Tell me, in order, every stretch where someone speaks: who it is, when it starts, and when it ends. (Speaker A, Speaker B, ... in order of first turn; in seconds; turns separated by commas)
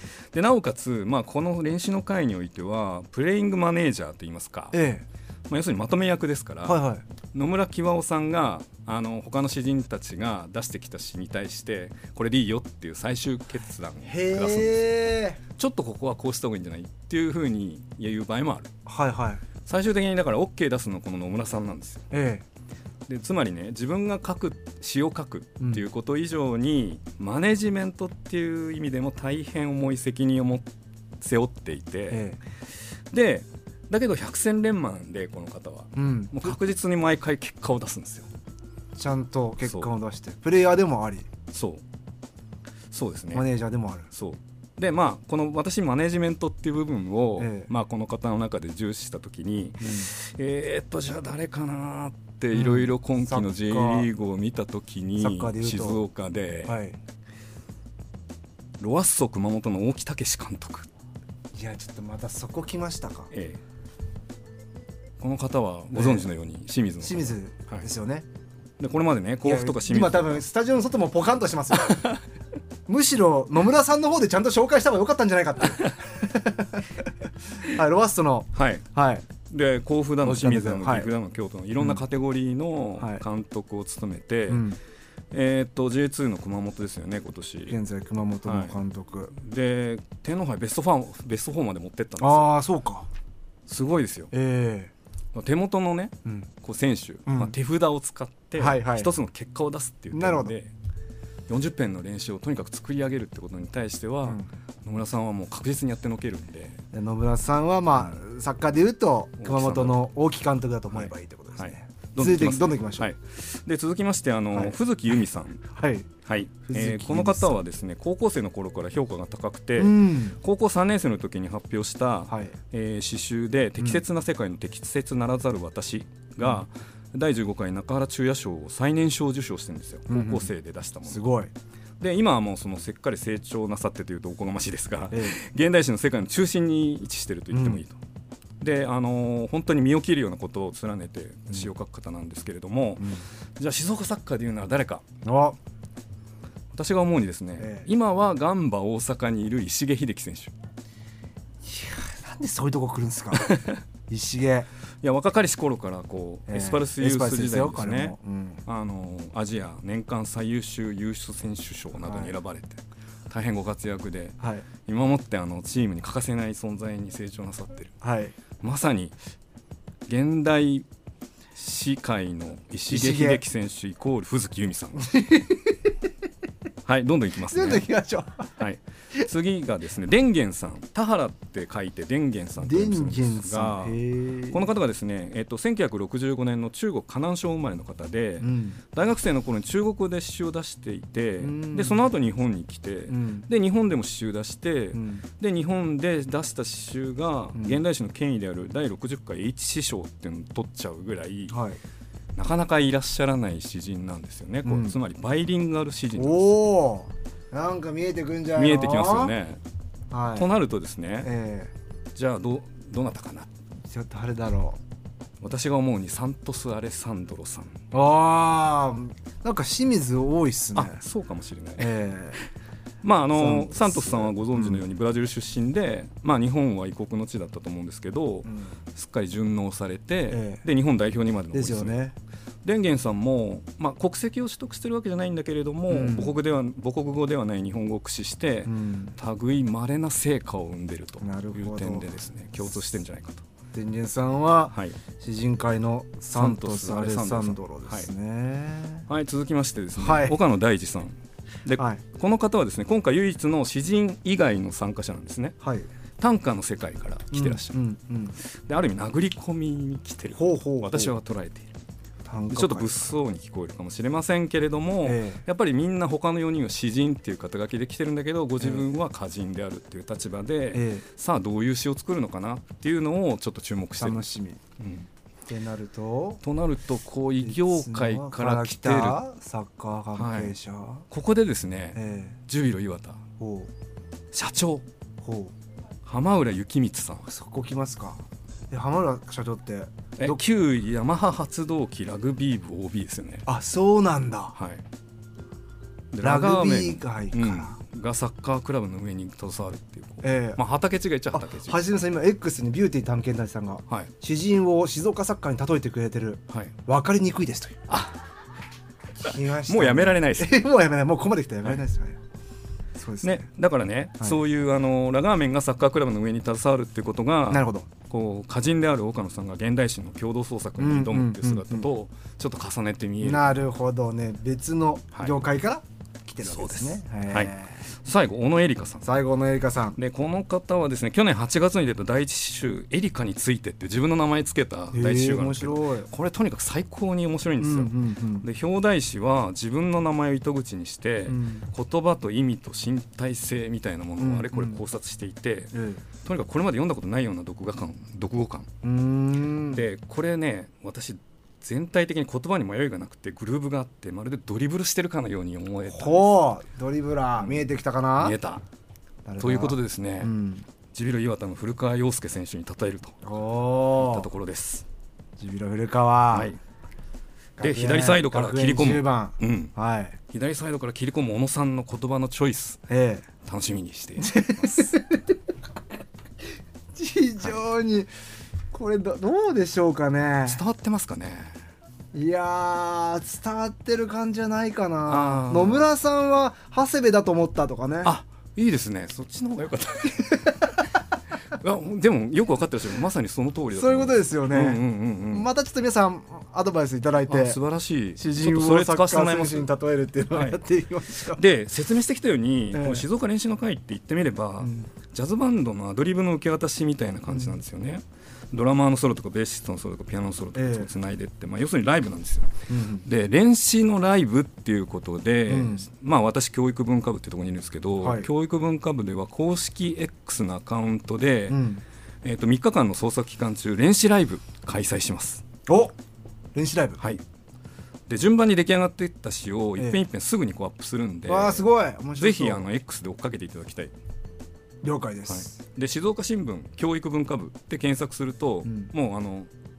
Speaker A: 0.3-4.8, Speaker B: 4.7-5.0, Speaker A: 5.5-14.9, Speaker B: 6.6-7.0, Speaker B: 14.0-15.4, Speaker A: 15.6-18.7, Speaker B: 18.9-19.4, Speaker A: 19.6-22.1, Speaker B: 22.1-22.4, Speaker A: 23.1-30.7, Speaker A: 31.2-32.2, Speaker B: 32.1-32.4, Speaker A: 33.1-38.3, Speaker B: 36.0-36.5, Speaker B: 38.9-41.3, Speaker A: 39.6-39.9, Speaker A: 41.5-41.8, Speaker A: 42.9-43.5, Speaker B: 43.3-44.1, Speaker A: 44.1-56.8, Speaker B: 47.4-47.7, Speaker B: 49.8-50.1, Speaker B: 52.5-54.1, Speaker B: 55.2-56.0, Speaker B: 56.6-57.0, Speaker A: 58.8-60.9, Speaker B: 61.5-63.3, Speaker A: 63.3-63.6, Speaker A: 65.2-67.8, Speaker B: 65.9-66.3, Speaker B: 67.0-68.2, Speaker A: 68.8-70.4, Speaker B: 69.4-72.0, Speaker A: 71.8-72.2, Speaker B: 72.9-76.9, Speaker B: 77.6-79.3, Speaker A: 78.5-78.9, Speaker A: 79.5-84.6, Speaker B: 80.2-81.1, Speaker B: 83.0-83.2, Speaker B: 84.5-84.8, Speaker A: 85.3-87.8, Speaker B: 87.7-89.3, Speaker A: 88.4-88.7, Speaker A: 89.3-92.5, Speaker B: 92.2-93.1, Speaker A: 93.7-94.3, Speaker B: 94.3-94.9, Speaker A: 95.3-100.7, Speaker B: 97.3-97.5, Speaker B: 98.5-99.1, Speaker B: 100.1-100.5, Speaker A: 101.5-106.8, Speaker B: 106.9-113.1, Speaker A: 109.4-110.0, Speaker A: 110.9-115.7, Speaker B: 115.7-116.1, Speaker A: 116.2-131.2, Speaker B: 116.7-117.6, Speaker B: 119.8-120.4, Speaker B: 122.3-122.5, Speaker B: 130.1-130.5, Speaker B: 131.0-131.5, Speaker A: 132.0-138.0, Speaker B: 135.1-135.4, Speaker B: 137.5-137.8, Speaker A: 138.6-145.0, Speaker B: 143.0-143.2, Speaker B: 145.2-145.6, Speaker A: 146.7-150.5, Speaker B: 147.6-147.9, Speaker B: 151.6-153.5, Speaker A: 153.3-153.8, Speaker B: 154.1-154.7, Speaker A: 155.0-167.9, Speaker B: 156.5-158.6, Speaker B: 162.0-162.3, Speaker B: 164.4-164.7, Speaker B: 168.0-168.3, Speaker A: 168.6-169.2, Speaker A: 170.1-170.8, Speaker A: 171.6-175.1, Speaker B: 172.9-173.4, Speaker B: 175.1-175.8, Speaker A: 176.8-177.9, Speaker B: 177.4-178.5, Speaker A: 178.6-201.6, Speaker B: 182.6-184.6, Speaker B: 188.4-188.8, Speaker B: 191.4-192.0, Speaker B: 193.1-193.5, Speaker B: 194.9-195.2, Speaker B: 201.5-201.8, Speaker A: 202.3-206.6, Speaker B: 204.6-205.0, Speaker B: 206.1-209.3, Speaker A: 208.6-209.6, Speaker B: 210.1-210.5, Speaker A: 210.3-211.3, Speaker B: 211.2-211.7, Speaker A: 212.1-213.5, Speaker B: 213.9-214.8, Speaker A: 215.4-217.8, Speaker B: 217.9-221.0, Speaker A: 220.7-221.9, Speaker B: 221.8-222.4, Speaker A: 223.0-232.0, Speaker B: 223.3-224.8, Speaker B: 228.4-228.8, Speaker B: 230.3-230.7, Speaker B: 231.5-232.2, Speaker A: 232.6-243.4, Speaker B: 235.9-236.4, Speaker B: 238.7-239.2, Speaker B: 241.2-242.2, Speaker B: 243.7-249.1, Speaker A: 244.7-245.0, Speaker A: 246.3-248.1, Speaker A: 249.1-255.6, Speaker B: 250.0-250.4, Speaker B: 255.6-255.9, Speaker A: 256.2-257.8, Speaker B: 257.3-258.4, Speaker A: 258.4-261.7, Speaker B: 260.3-261.1, Speaker B: 262.2-263.1, Speaker A: 262.5-274.2, Speaker B: 265.0-265.4, Speaker B: 268.6-268.8, Speaker B: 270.7-271.0, Speaker B: 274.0-274.6, Speaker A: 274.8-275.1, Speaker B: 275.5-276.4, Speaker A: 276.4-279.2, Speaker B: 277.4-281.0, Speaker A: 280.1-280.6, Speaker A: 281.1-283.2, Speaker B: 281.9-282.4, Speaker B: 283.4-283.7, Speaker A: 284.3-284.9, Speaker B: 285.2-285.5, Speaker A: 286.1-287.3, Speaker B: 287.2-290.4, Speaker A: 290.2-293.5, Speaker B: 293.5-294.6, Speaker A: 294.5-294.8, Speaker A: 296.1-301.8, Speaker B: 296.2-297.8, Speaker B: 300.2-300.6, Speaker B: 301.3-307.8, Speaker A: 306.5-306.7, Speaker A: 307.9-308.2, Speaker B: 309.2-312.2, Speaker A: 309.6-310.6, Speaker B: 312.9-313.4, Speaker A: 313.2-323.5, Speaker B: 317.5-317.9, Speaker B: 320.8-321.9, Speaker B: 323.2-327.8, Speaker A: 325.1-325.4, Speaker A: 326.4-329.1, Speaker B: 329.0-330.0, Speaker A: 329.9-348.7, Speaker B: 334.9-336.1, Speaker B: 337.6-338.4, Speaker B: 341.2-341.7, Speaker B: 344.2-344.8, Speaker B: 345.7-346.0, Speaker B: 348.8-349.9, Speaker A: 349.7-356.4, Speaker B: 355.9-358.4, Speaker A: 357.4-358.6, Speaker B: 359.2-360.6, Speaker A: 359.4-360.3, Speaker A: 360.9-363.2, Speaker B: 363.2-364.3, Speaker A: 363.9-364.8, Speaker B: 365.4-366.5, Speaker A: 366.3-366.6, Speaker B: 367.6-370.2, Speaker A: 367.6-369.7, Speaker A: 370.3-372.8, Speaker B: 372.9-373.3, Speaker A: 373.4-374.6, Speaker B: 374.2-375.2, Speaker B: 376.9-378.1, Speaker B: 378.7-380.6, Speaker A: 380.4-381.6, Speaker B: 382.1-388.1, Speaker A: 385.1-385.9, Speaker A: 388.0-390.9, Speaker A: 391.5-395.5, Speaker B: 393.7-397.6, Speaker A: 397.3-399.7, Speaker B: 398.2-401.4, Speaker A: 400.3-400.6, Speaker A: 401.3-412.5, Speaker B: 402.7-403.1, Speaker B: 404.6-404.9, Speaker B: 410.5-410.9, Speaker B: 412.7-413.1, Speaker A: 413.1-421.6, Speaker B: 415.4-415.9, Speaker B: 418.0-418.3, Speaker B: 421.5-421.8, Speaker A: 422.2-425.4, Speaker B: 425.7-425.9, Speaker B: 426.5-427.0, Speaker A: 428.1-431.7, Speaker B: 431.2-432.7, Speaker A: 432.2-433.9, Speaker B: 434.8-435.6, Speaker A: 435.3-439.5, Speaker B: 438.6-438.9